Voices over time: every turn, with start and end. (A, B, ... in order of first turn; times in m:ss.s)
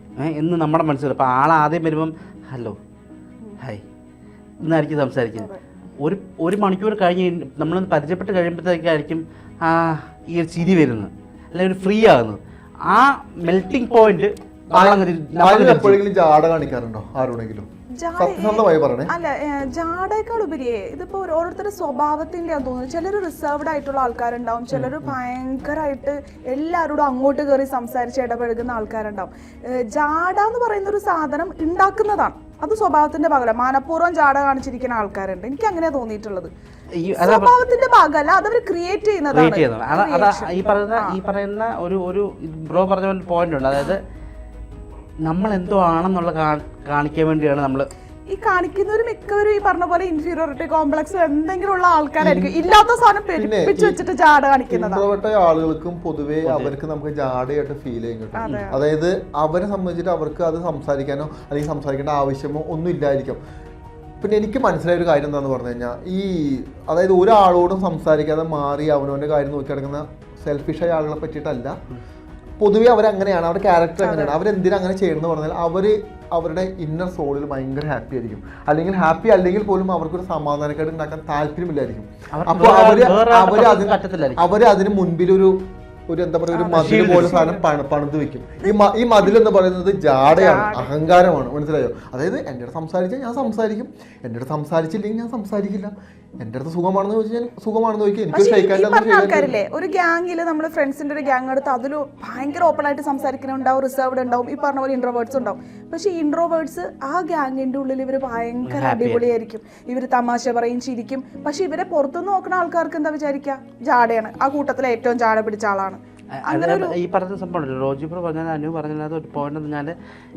0:00.2-0:02.8 A
0:04.6-0:05.5 A
0:06.0-0:16.0 A
0:14.7-0:17.7 B
0:18.0-0:36.5 C
0:18.2-0:19.1 B
0:24.8-0:25.1 B
0:37.0-0:37.5 A
0:37.2-0:41.2 C
0:39.3-0:44.0 A
0:45.2-0:47.9 A
0:48.3-0:55.0 C
0:52.2-0:52.5 B
0:53.4-0:54.0 B
0:54.7-1:03.4 B
0:56.4-0:56.7 A
0:58.3-0:58.8 C
1:04.2-1:11.8 B
1:12.6-1:39.5 B
1:14.0-1:14.4 C
1:22.3-1:24.5 A
1:26.5-1:27.6 C
1:26.7-1:27.4 A
1:30.3-1:30.9 C
1:38.3-1:56.9 C
1:48.6-1:49.2 A
1:56.4-1:59.9 A